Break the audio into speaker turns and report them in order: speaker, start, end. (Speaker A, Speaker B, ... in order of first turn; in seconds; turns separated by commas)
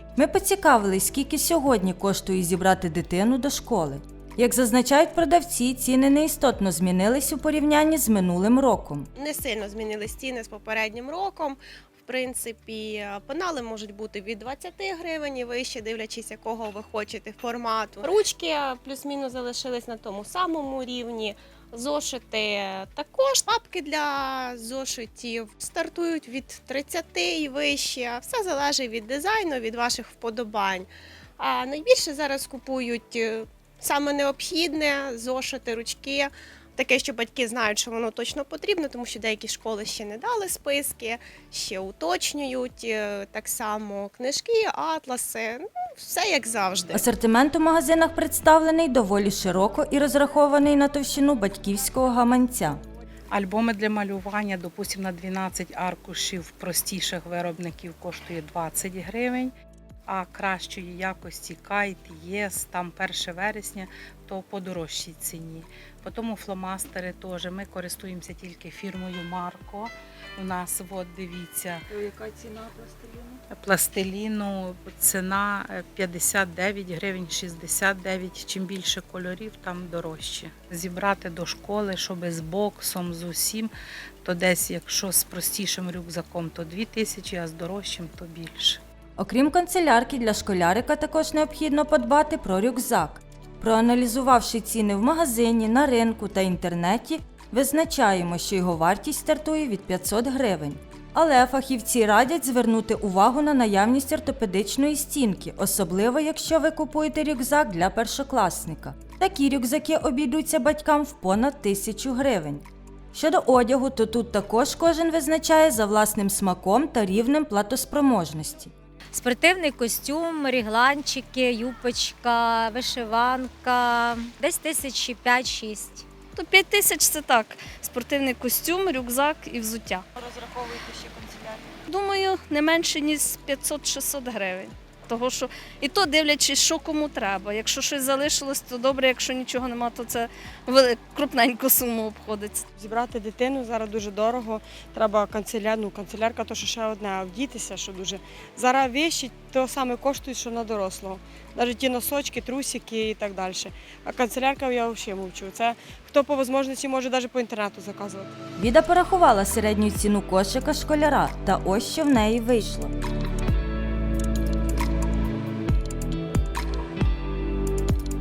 Speaker A: 0.2-9.1, Speaker B: 9.2-47.0, Speaker A: 46.9-52.8, Speaker C: 53.3-59.5, Speaker C: 60.1-71.8, Speaker D: 71.9-73.4, Speaker C: 73.5-83.7, Speaker C: 84.2-88.8, Speaker A: 89.2-118.7, Speaker E: 119.1-126.0, Speaker F: 126.3-130.1, Speaker D: 130.2-131.8, Speaker F: 131.9-142.7, Speaker G: 142.8-158.4, Speaker A: 158.6-162.9